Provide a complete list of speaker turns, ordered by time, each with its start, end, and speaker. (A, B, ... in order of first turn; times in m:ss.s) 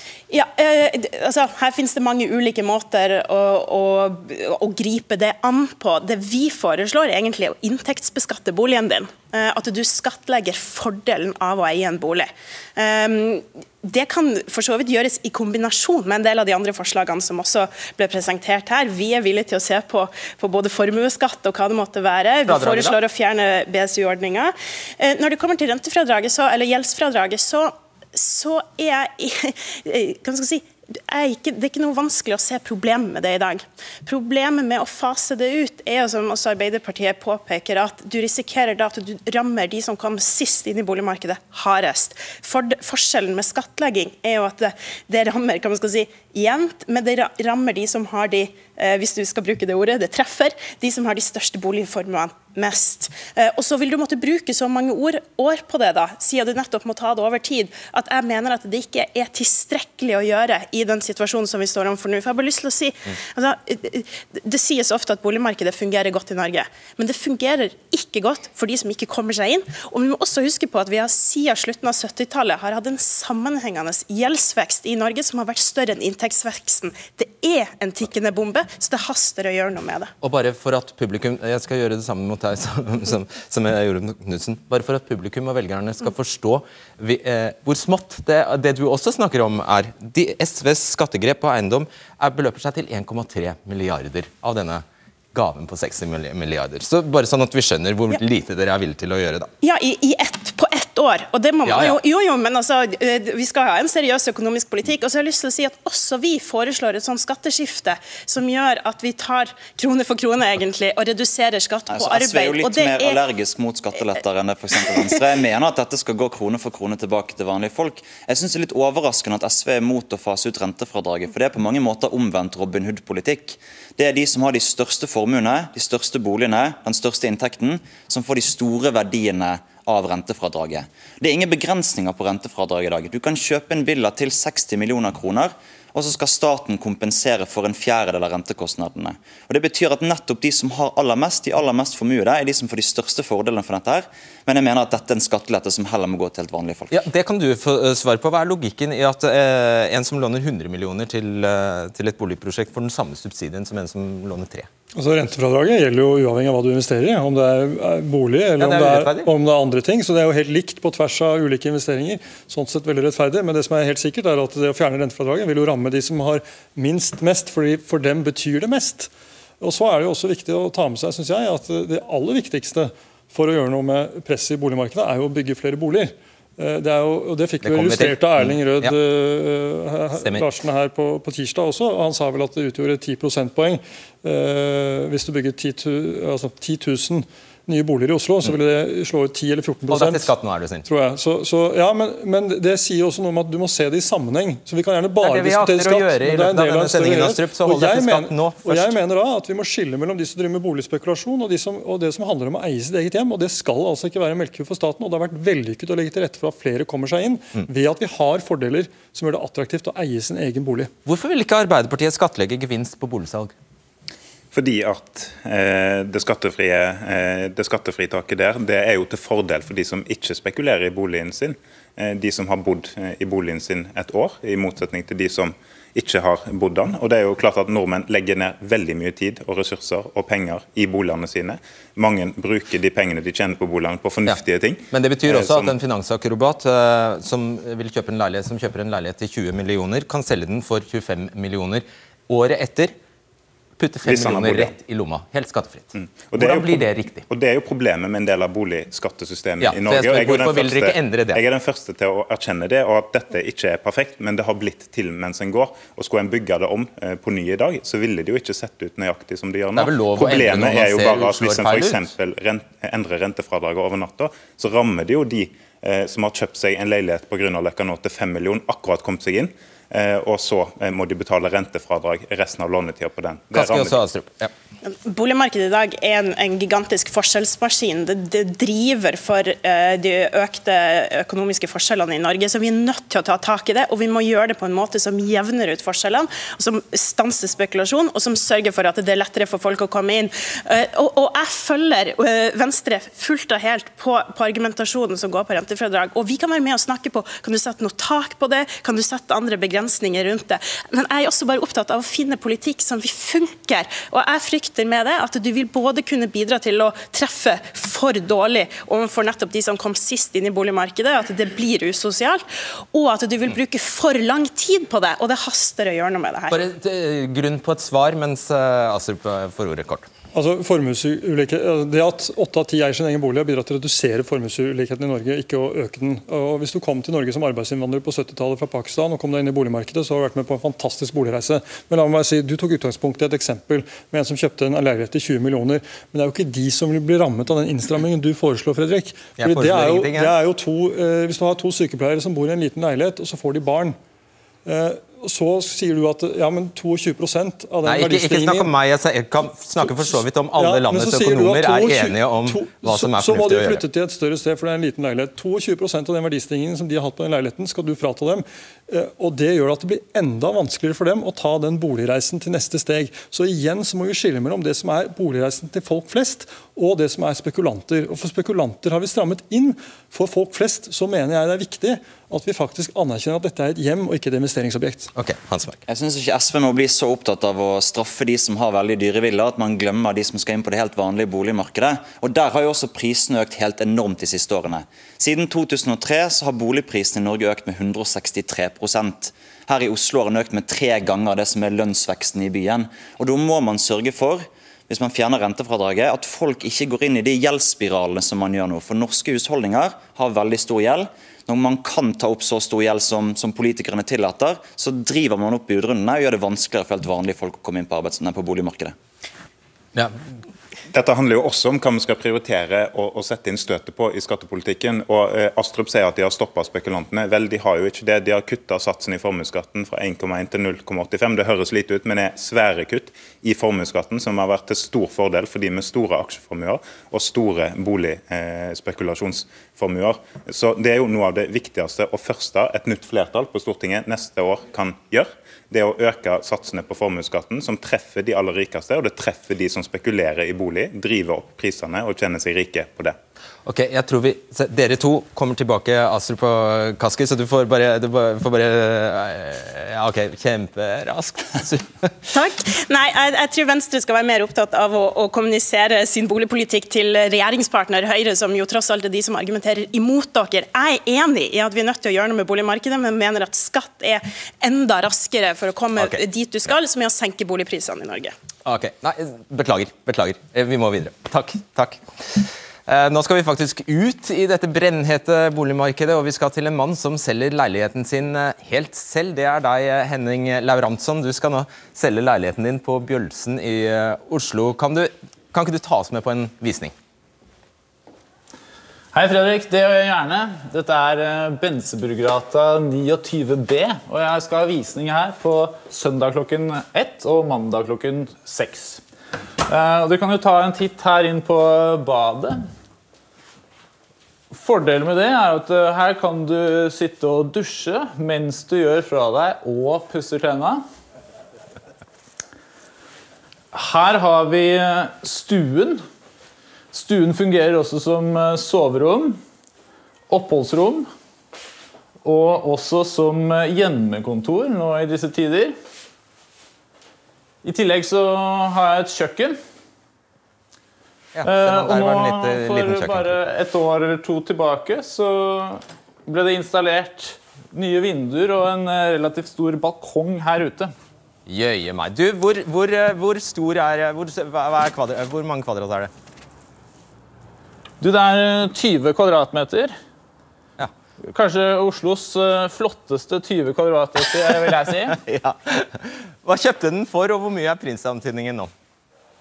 0:00.3-1:20.1 A
0:22.5-0:23.0 B
1:20.2-1:39.5 B
1:39.6-1:53.2 A
1:41.6-1:42.0 B
1:51.9-2:27.0 C
1:54.7-1:55.2 A
2:26.9-2:34.7 B
2:34.9-3:10.3 D
2:38.6-2:39.3 B
2:57.6-2:58.9 B
3:00.1-3:00.5 B
3:09.9-3:10.8 B
3:10.9-3:30.9 D
3:15.2-3:19.0 B
3:31.0-3:33.5 B
3:34.5-3:55.7 E
3:54.9-4:02.9 B
4:03.8-4:07.2 B
4:04.0-4:04.7 E
4:05.9-4:34.0 E
4:09.6-4:11.4 B
4:19.7-4:22.1 B
4:33.5-4:34.5 B
4:34.8-5:16.6 A
5:16.5-5:20.1 B
5:20.3-5:44.0 D
5:39.4-5:40.3 B
5:44.6-5:48.7 D
5:47.8-5:53.8 B
5:49.8-6:15.1 D
6:15.1-6:15.8 B
6:15.9-6:48.9 C
6:50.9-7:23.2 E
7:23.6-7:32.1 B
7:32.3-7:48.3 A
7:48.6-8:06.9 B
8:09.1-8:19.0 F
8:19.7-8:22.6 F
8:24.5-8:30.8 F
8:33.7-8:36.0 F
8:36.9-8:39.4 F
8:40.3-8:41.1 F
8:42.2-8:45.8 F
8:47.6-8:49.6 F
8:51.3-8:53.4 B
8:51.4-9:00.9 F
9:01.4-9:06.1 B
9:08.0-9:10.0 F
9:11.3-9:15.2 F
9:15.1-9:18.7 B